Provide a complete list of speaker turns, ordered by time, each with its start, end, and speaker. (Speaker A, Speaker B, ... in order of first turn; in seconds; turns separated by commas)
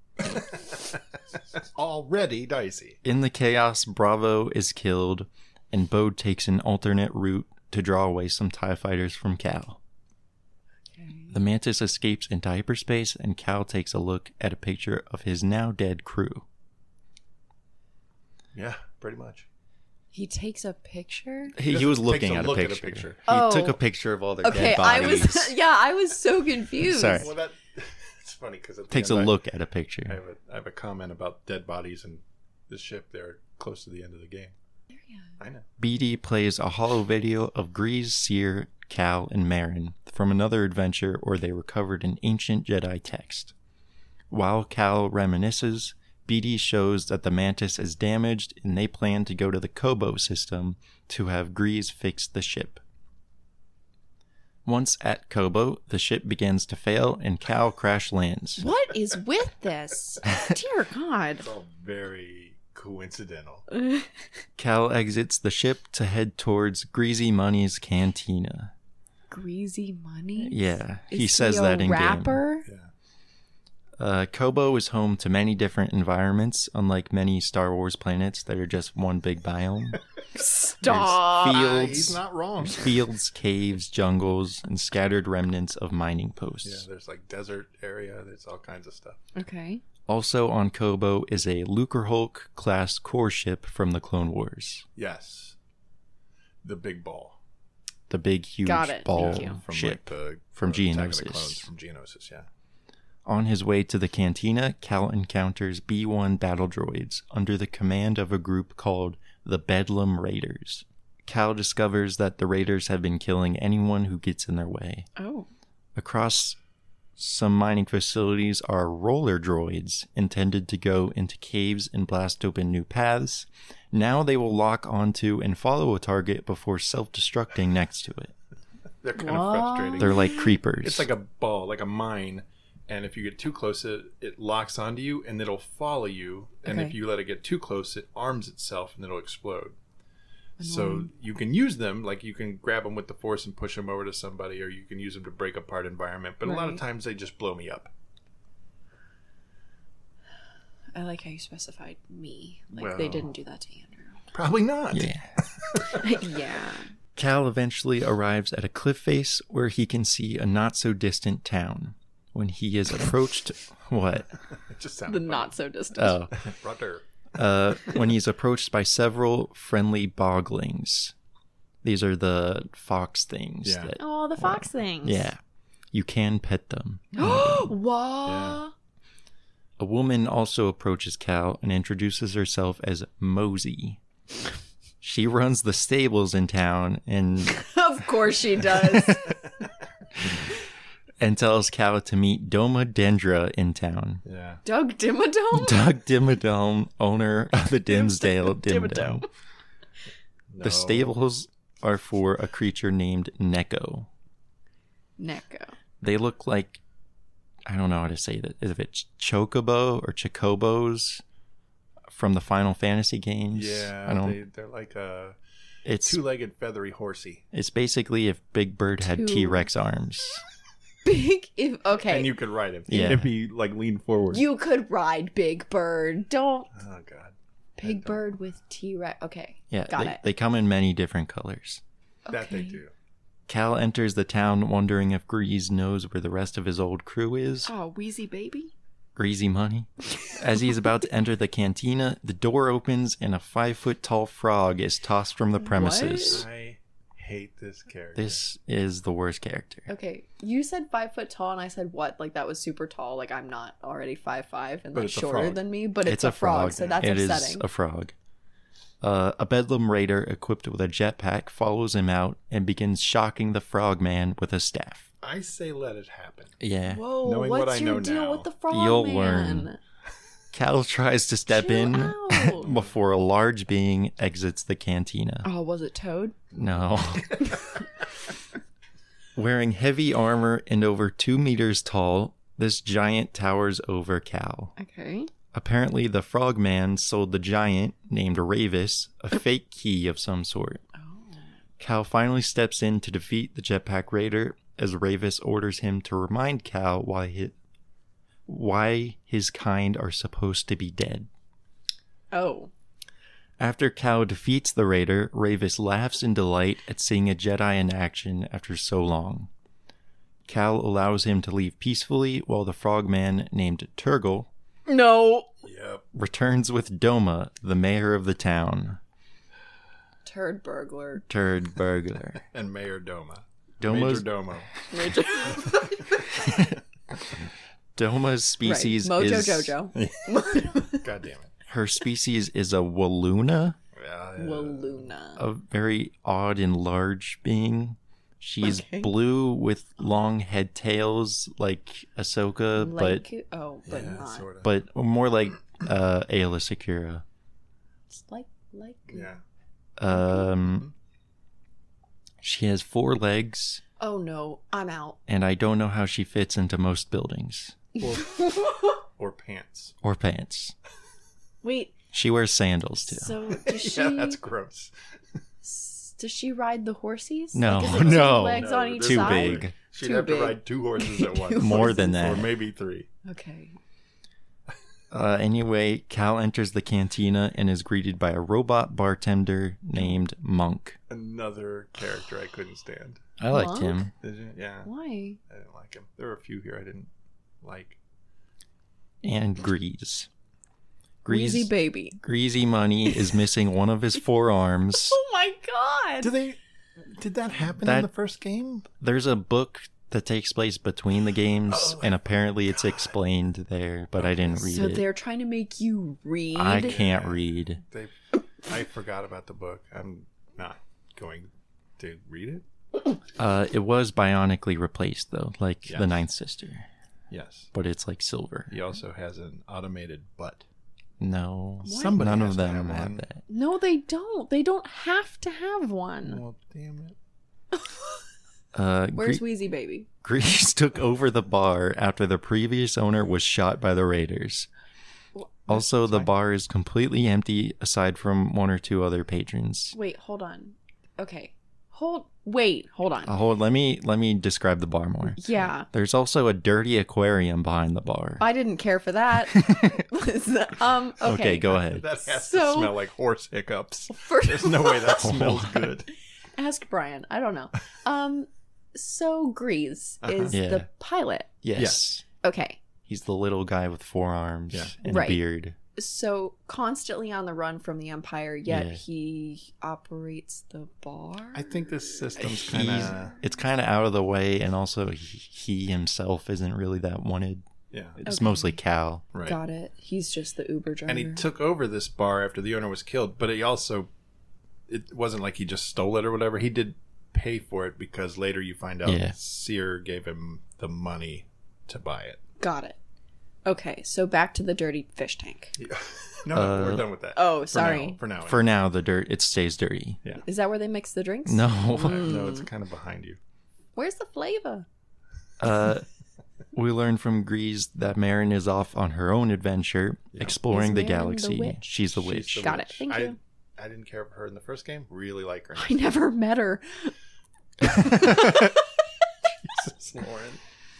Speaker A: 0.3-0.9, Speaker A: 1.5-3.0, Speaker B: 3.0-9.8, Speaker C: 10.9-11.4, Speaker B: 11.3-16.4, Speaker A: 18.5-19.5, Speaker C: 20.1-21.6, Speaker B: 21.6-25.6, Speaker A: 21.6-23.2, Speaker C: 23.3-23.8, Speaker C: 24.4-27.3, Speaker B: 26.8-27.3, Speaker A: 27.1-29.3, Speaker B: 28.9-30.2, Speaker A: 30.1-34.5, Speaker C: 34.9-35.3, Speaker A: 35.4-35.6, Speaker B: 35.8-43.5, Speaker B: 44.3-52.8, Speaker B: 54.6-58.6, Speaker C: 58.6-61.5, Speaker A: 61.4-63.6, Speaker C: 63.7-64.1, Speaker B: 64.6-68.7, Speaker C: 69.3-72.7, Speaker B: 70.4-72.4, Speaker A: 72.7-72.9, Speaker B: 74.0-80.0, Speaker C: 80.3-81.5, Speaker B: 80.8-86.8, Speaker A: 81.3-82.9, Speaker A: 86.6-89.2, Speaker C: 89.3-89.8, Speaker B: 90.1-94.8, Speaker A: 95.0-95.5, Speaker A: 96.6-97.4, Speaker B: 98.1-101.7, Speaker C: 98.6-99.6, Speaker A: 99.1-102.5, Speaker B: 103.2-115.1, Speaker C: 115.2-115.5, Speaker B: 116.0-116.6, Speaker B: 117.2-128.3, Speaker A: 129.0-139.8, Speaker C: 129.2-130.5, Speaker B: 130.0-131.1, Speaker C: 136.7-136.9, Speaker C: 140.6-141.1, Speaker A: 140.6-147.9, Speaker C: 146.4-146.8, Speaker C: 150.9-154.2, Speaker A: 152.7-153.3, Speaker A: 154.3-156.0, Speaker B: 154.9-155.3, Speaker C: 155.9-156.9, Speaker B: 157.2-164.3, Speaker A: 164.6-165.5, Speaker C: 165.1-166.2, Speaker B: 165.9-166.4, Speaker A: 166.4-167.0, Speaker B: 167.3-171.1, Speaker B: 171.8-175.4, Speaker A: 173.6-173.9, Speaker C: 174.0-175.3, Speaker B: 175.9-177.7, Speaker C: 177.2-178.7, Speaker A: 178.2-178.6, Speaker B: 179.8-184.0, Speaker B: 185.0-187.6, Speaker C: 187.5-189.4, Speaker B: 191.2-194.2, Speaker A: 194.2-194.6, Speaker C: 194.6-195.8, Speaker B: 195.5-199.2, Speaker C: 197.9-199.2, Speaker A: 200.5-201.1, Speaker B: 200.6-204.1, Speaker C: 205.2-205.7, Speaker B: 206.0-206.8, Speaker B: 207.7-211.2, Speaker B: 212.1-214.4, Speaker A: 213.5-215.4, Speaker B: 215.8-216.2, Speaker A: 216.0-217.4, Speaker B: 217.5-220.4, Speaker C: 219.0-219.7, Speaker C: 221.0-222.4, Speaker A: 222.0-224.4, Speaker B: 222.9-223.3, Speaker C: 224.3-226.7, Speaker A: 226.7-228.3, Speaker C: 227.8-230.2, Speaker B: 229.7-231.8, Speaker C: 232.2-232.8, Speaker A: 232.3-232.9, Speaker B: 233.5-237.7, Speaker C: 237.6-238.7, Speaker B: 239.2-246.4, Speaker C: 245.6-246.4, Speaker A: 246.3-248.4, Speaker B: 248.1-249.9, Speaker C: 249.9-257.6, Speaker A: 254.9-255.7, Speaker B: 256.0-258.1, Speaker A: 256.7-257.1, Speaker B: 259.0-265.1, Speaker A: 265.2-266.6, Speaker B: 266.6-267.0, Speaker C: 266.9-269.8, Speaker A: 267.2-268.5, Speaker B: 268.7-269.7, Speaker B: 270.5-275.5, Speaker C: 271.5-272.6, Speaker A: 272.6-273.0, Speaker C: 275.4-276.4, Speaker B: 276.5-277.4, Speaker B: 279.4-284.7, Speaker C: 284.8-285.3, Speaker B: 285.5-290.8, Speaker C: 290.9-291.5, Speaker B: 291.8-297.5, Speaker B: 298.5-301.3, Speaker C: 302.3-302.7, Speaker B: 303.6-309.5, Speaker B: 310.4-314.5, Speaker C: 314.9-315.5, Speaker A: 315.6-316.0, Speaker B: 316.1-319.0, Speaker C: 320.2-321.2, Speaker B: 321.3-322.4, Speaker A: 322.5-324.7, Speaker B: 323.8-324.6, Speaker C: 324.9-326.3, Speaker B: 326.4-326.8, Speaker B: 327.9-329.8, Speaker C: 328.6-331.0, Speaker A: 329.9-331.5, Speaker B: 331.7-333.8, Speaker A: 333.9-335.1, Speaker C: 334.4-335.4, Speaker B: 335.4-343.2, Speaker C: 338.6-339.1, Speaker C: 342.8-344.5, Speaker A: 343.9-344.7, Speaker B: 344.6-347.2, Speaker C: 348.1-349.3, Speaker A: 349.1-349.4, Speaker B: 350.0-350.9, Speaker C: 350.1-350.5, Speaker B: 352.4-353.8, Speaker C: 354.0-355.2, Speaker B: 355.3-357.8, Speaker A: 358.0-359.9, Speaker C: 358.3-358.9, Speaker B: 360.0-360.7, Speaker C: 361.6-361.9, Speaker B: 362.1-363.4, Speaker C: 363.0-364.4, Speaker A: 363.6-364.9, Speaker C: 365.6-372.2, Speaker B: 367.5-369.7, Speaker A: 367.8-373.1, Speaker B: 371.6-372.5, Speaker C: 373.2-373.8, Speaker B: 375.1-381.0, Speaker A: 381.1-383.2, Speaker B: 383.4-384.1, Speaker C: 383.5-384.1, Speaker A: 384.2-384.9, Speaker C: 384.8-385.4, Speaker A: 385.5-387.1, Speaker A: 387.6-388.0, Speaker B: 389.2-390.3, Speaker B: 391.2-395.2, Speaker C: 391.3-392.2, Speaker C: 395.0-396.3, Speaker A: 396.2-398.9, Speaker B: 397.8-398.1, Speaker B: 399.0-405.1, Speaker A: 401.7-403.0, Speaker A: 404.1-404.8, Speaker C: 404.6-407.0, Speaker B: 406.5-407.8, Speaker A: 406.7-412.6, Speaker B: 413.4-416.9, Speaker A: 415.8-416.2, Speaker A: 417.3-417.7, Speaker B: 417.7-418.7, Speaker A: 418.7-420.6, Speaker B: 421.2-423.4, Speaker A: 421.8-423.2, Speaker C: 421.9-422.2, Speaker C: 423.5-426.4, Speaker A: 426.2-427.1, Speaker B: 428.7-429.5, Speaker C: 429.1-430.1, Speaker B: 430.2-434.7, Speaker C: 435.3-436.2, Speaker B: 435.7-439.9, Speaker A: 435.7-436.2, Speaker C: 439.9-443.3, Speaker B: 443.2-448.4, Speaker C: 445.4-445.9, Speaker C: 448.4-453.0, Speaker B: 449.5-450.0, Speaker B: 451.2-452.0, Speaker A: 451.8-456.1, Speaker C: 454.1-455.2, Speaker B: 455.0-455.9, Speaker C: 456.6-461.5, Speaker A: 460.2-460.6, Speaker B: 460.5-460.9, Speaker B: 461.6-462.2, Speaker A: 461.8-462.0, Speaker C: 462.4-462.8, Speaker B: 463.1-465.8, Speaker C: 465.0-465.4, Speaker C: 465.9-472.4, Speaker B: 468.7-469.0, Speaker A: 471.5-473.4, Speaker B: 472.5-477.6, Speaker A: 477.9-478.2, Speaker B: 478.2-479.2, Speaker C: 478.2-478.8, Speaker C: 479.4-481.5, Speaker A: 481.1-484.1, Speaker A: 484.9-492.4, Speaker B: 489.0-489.3, Speaker C: 492.6-493.0, Speaker C: 493.6-495.7, Speaker A: 495.8-498.6, Speaker B: 496.5-497.1, Speaker C: 497.3-498.2, Speaker B: 498.4-500.2, Speaker C: 500.4-502.7, Speaker B: 501.4-502.4, Speaker A: 501.9-503.4, Speaker C: 503.9-504.9, Speaker B: 505.6-506.1, Speaker B: 506.7-512.7, Speaker C: 510.7-511.8, Speaker A: 512.1-516.1, Speaker C: 512.6-513.4, Speaker C: 515.7-517.1, Speaker A: 518.0-518.6, Speaker C: 518.0-518.7, Speaker A: 519.6-520.6